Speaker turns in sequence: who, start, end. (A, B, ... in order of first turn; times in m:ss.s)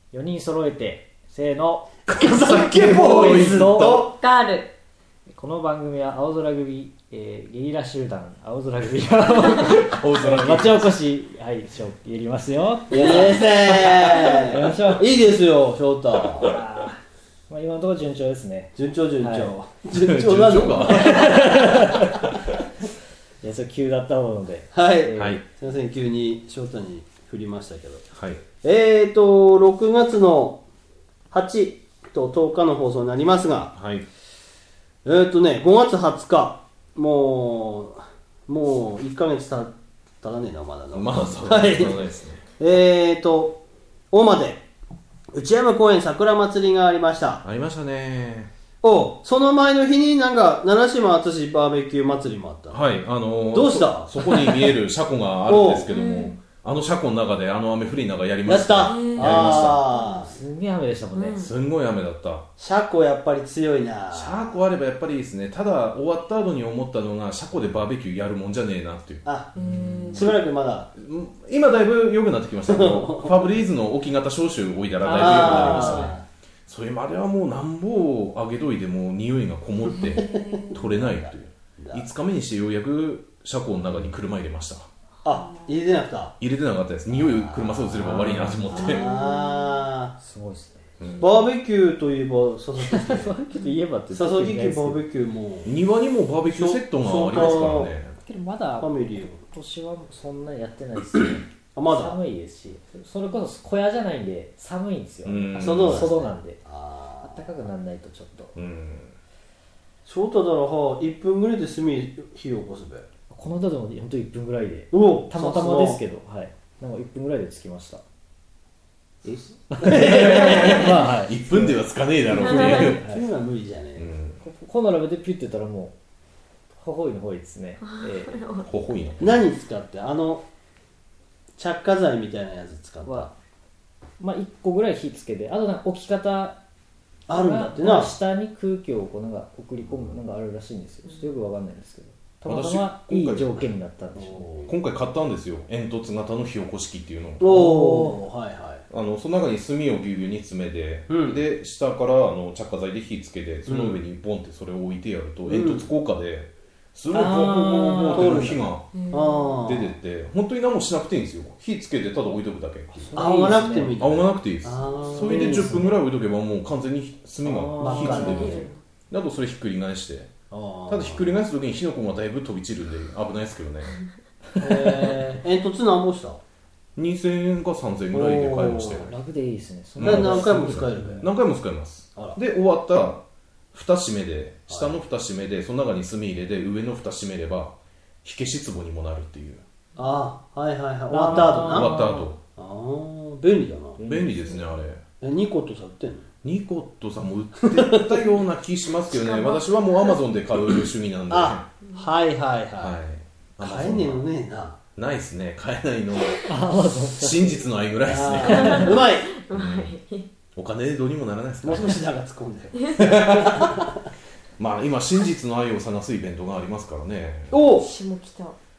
0:00.1-0:01.9 A
0:02.1-0:04.2 B
0:02.2-0:04.1 C
0:02.6-0:04.0 A
0:03.9-0:04.7 D
0:05.3-0:15.1 A
0:09.6-0:10.9 B
0:12.9-0:16.6 C
0:16.4-0:19.5 A
0:18.8-0:21.7 C
0:19.9-0:21.8 B
0:20.9-0:22.2 A
0:23.4-0:25.4 A
0:24.7-0:28.0 C
0:25.2-0:25.4 B
0:28.1-0:28.4 B
0:28.6-0:30.6 C
0:31.3-0:33.8 C
0:33.8-0:34.1 B
0:35.0-0:42.0 C
0:40.9-0:42.4 B
0:42.6-0:43.6 C
0:44.1-0:44.6 C
0:45.3-0:47.4 C
0:47.4-0:48.5 B
0:48.8-0:52.9 C
0:52.7-0:59.8 B
0:53.5-0:54.7 C
0:55.5-0:55.9 C
0:55.9-0:56.4 D
0:58.5-1:00.4 C
0:58.8-1:00.3 D
1:00.2-1:01.4 A
1:01.1-1:01.5 D
1:01.4-1:02.4 B
1:02.6-1:04.6 C
1:04.1-1:09.3 B
1:09.2-1:09.5 C
1:09.6-1:10.3 D
1:09.6-1:10.3 A
1:10.1-1:10.9 C
1:11.0-1:16.2 B
1:12.7-1:13.5 C
1:15.0-1:16.2 A
1:15.1-1:16.2 C
1:16.7-1:24.9 B
1:20.1-1:22.1 C
1:20.1-1:20.8 D
1:25.2-1:25.7 D
1:25.2-1:26.4 C
1:26.4-1:29.1 B
1:27.1-1:30.1 C
1:28.0-1:28.8 A
1:28.7-1:29.8 D
1:30.2-1:30.9 A
1:31.0-1:31.3 B
1:31.2-1:33.4 C
1:32.9-1:35.0 A
1:34.1-1:35.7 C
1:35.6-1:38.2 B
1:36.5-1:37.9 C
1:37.4-1:37.6 A
1:38.2-1:46.6 A
1:38.8-1:39.4 C
1:41.8-1:42.2 C
1:45.2-1:46.1 B
1:45.6-1:47.6 C
1:47.2-1:48.6 A
1:48.6-1:49.2 B
1:50.1-1:53.1 C
1:53.3-1:58.0 A
1:54.9-1:56.0 C
1:59.3-2:01.0 C
1:59.7-2:01.8 A
1:59.8-2:03.0 B
2:02.3-2:03.2 A
2:02.3-2:02.9 D
2:02.6-2:04.1 C
2:04.0-2:04.4 B
2:04.4-2:05.9 A
2:06.7-2:08.4 A
2:07.8-2:08.7 D
2:08.7-2:09.4 B
2:09.2-2:10.4 C
2:11.6-2:13.3 C
2:13.0-2:13.3 A
2:14.2-2:16.6 A
2:17.3-2:18.2 C
2:17.3-2:24.5 A
2:21.1-2:21.4 D
2:22.4-2:23.8 B
2:24.2-2:24.7 C
2:24.7-2:27.5 B
2:27.4-2:28.8 C
2:27.5-2:28.2 A
2:28.9-2:38.9 B
2:31.1-2:31.4 C
2:33.7-2:34.1 C
2:35.5-2:35.9 C
2:37.1-2:38.5 A
2:38.2-2:40.0 C
2:38.9-2:39.7 D
2:39.6-2:43.2 B
2:42.9-2:43.9 A
2:43.2-2:45.8 C
2:44.0-2:50.3 B
2:45.2-2:46.0 A
2:47.4-2:48.6 A
2:47.8-2:48.7 C
2:48.0-2:48.8 D
2:50.5-2:51.4 C
2:50.9-2:54.0 B
2:54.6-2:56.4 C
2:57.0-2:59.2 B
2:58.1-2:59.1 C
2:59.0-3:01.3 A
3:00.0-3:09.6 B
3:00.0-3:01.2 C
3:04.7-3:05.0 C
3:10.0-3:11.9 C
3:11.1-3:12.3 A
3:11.3-3:12.4 B
3:12.6-3:14.0 C
3:14.0-3:14.8 A
3:14.0-3:15.0 B
3:15.2-3:16.3 C
3:16.4-3:21.7 B
3:17.7-3:18.2 C
3:19.1-3:20.2 D
3:21.3-3:23.0 C
3:22.8-3:24.2 B
3:23.6-3:24.8 C
3:25.0-3:28.9 B
3:26.5-3:27.7 A
3:28.0-3:29.3 C
3:28.5-3:28.9 A
3:28.5-3:30.3 D
3:29.5-3:29.9 B
3:30.6-3:32.0 B
3:31.6-3:34.1 C
3:32.7-3:33.3 D
3:33.0-3:33.8 B
3:34.6-3:37.6 B
3:37.5-3:37.9 C
3:37.8-3:38.6 D